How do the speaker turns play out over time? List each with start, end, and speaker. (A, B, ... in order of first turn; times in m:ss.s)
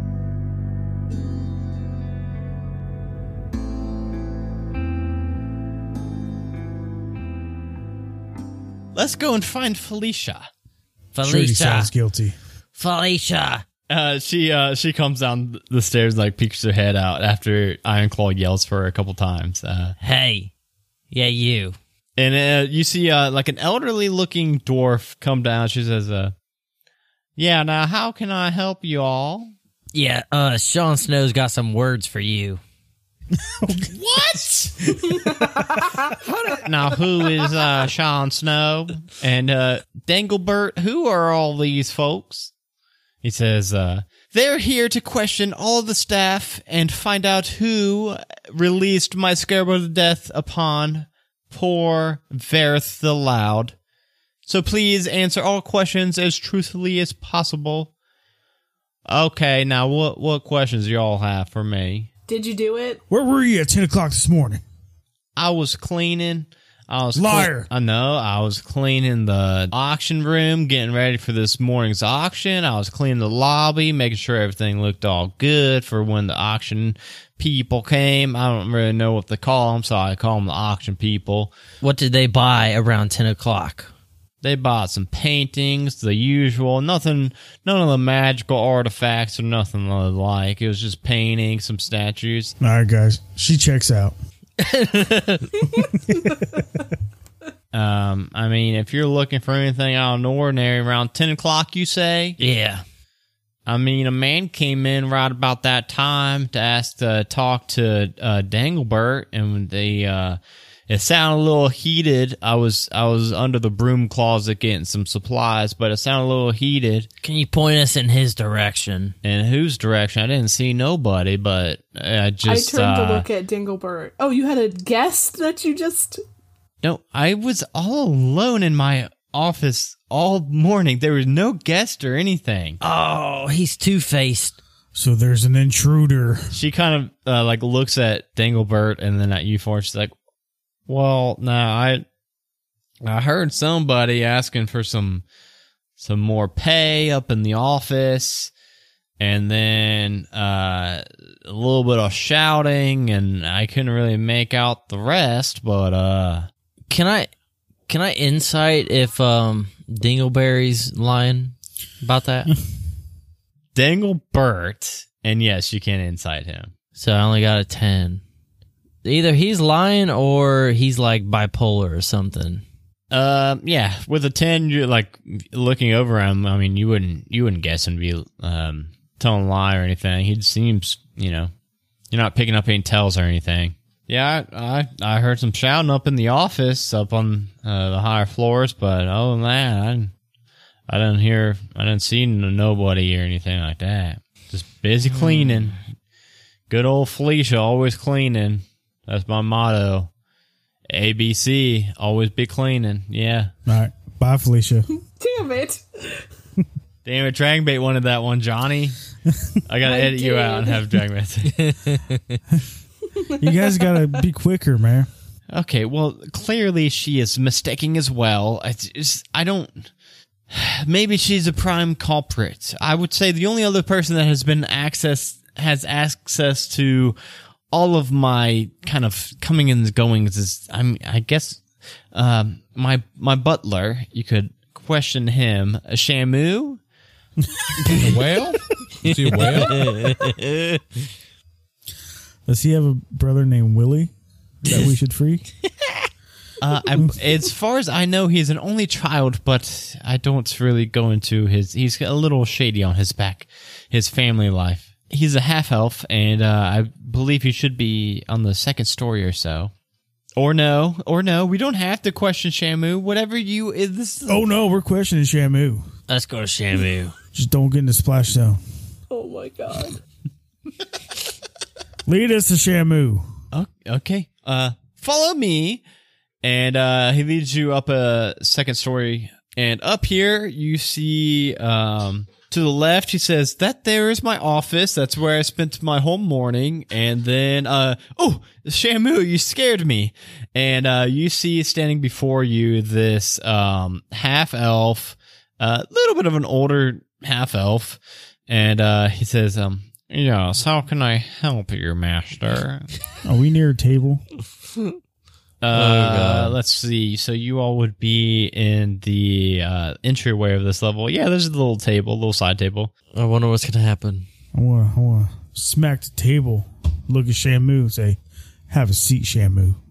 0:08.9-0:10.5 A
0:11.1-0:11.9 B
0:11.2-0:12.4 C
0:12.8-0:13.6 B
0:13.9-0:20.0 A
0:20.0-0:20.5 B
0:21.1-0:21.8 B
0:22.2-0:26.3 A
0:27.4-0:29.5 A
0:29.9-0:32.6 B
0:34.1-0:34.7 D
0:36.6-0:42.5 A
0:43.2-0:53.7 A
0:54.4-0:57.9 A
0:59.1-1:02.1 A
1:02.3-1:03.0 E
1:03.1-1:04.6 C
1:05.4-1:21.5 A
1:07.1-1:07.7 C
1:21.8-1:23.9 B
1:24.4-1:32.5 A
1:32.6-1:34.1 C
1:34.6-1:35.5 B
1:35.8-1:36.6 C
1:37.7-1:42.4 A
1:42.4-1:42.8 B
1:43.6-1:57.1 A
1:57.2-1:59.1 B
1:59.2-2:03.2 A
2:02.4-2:06.2 E
2:06.8-2:12.8 A
2:12.8-2:14.6 B
2:14.9-2:16.6 C
2:16.5-2:20.1 A
2:20.9-2:22.0 A
2:23.0-2:25.2 A
2:26.0-2:28.5 A
2:29.2-2:36.5 A
2:36.9-2:37.3 B
2:37.9-2:42.5 B
2:43.7-2:46.7 A
2:47.0-2:48.2 B
2:49.0-2:52.6 B
2:53.1-3:01.5 A
3:02.1-3:10.1 A
3:10.9-3:15.8 A
3:15.2-3:15.6 B
3:16.7-3:20.1 A
3:20.9-3:23.5 A
3:23.7-3:24.9 C
3:25.1-3:26.2 E
3:27.0-3:28.9 A
3:29.6-3:31.6 A
3:29.8-3:30.8 E
3:31.5-3:32.4 B
3:33.4-3:35.1 C
3:33.5-3:34.0 E
3:35.5-3:39.9 A
3:40.5-3:47.1 A
3:47.7-3:56.8 A
3:57.9-3:59.9 D
3:59.3-4:00.8 B
4:02.5-4:04.1 C
4:04.6-4:05.4 C
4:06.6-4:19.7 A
4:20.4-4:24.4 A
4:24.3-4:25.8 C
4:26.1-4:27.1 B
4:27.3-4:28.6 C
4:29.1-4:30.0 E
4:32.0-4:33.2 C
4:33.5-4:35.8 A
4:36.4-5:02.9 A
5:03.2-5:04.2 C
5:05.6-5:12.9 A
5:05.7-5:06.6 B
5:13.1-5:14.3 B
5:14.5-5:18.2 C
5:18.7-5:19.8 C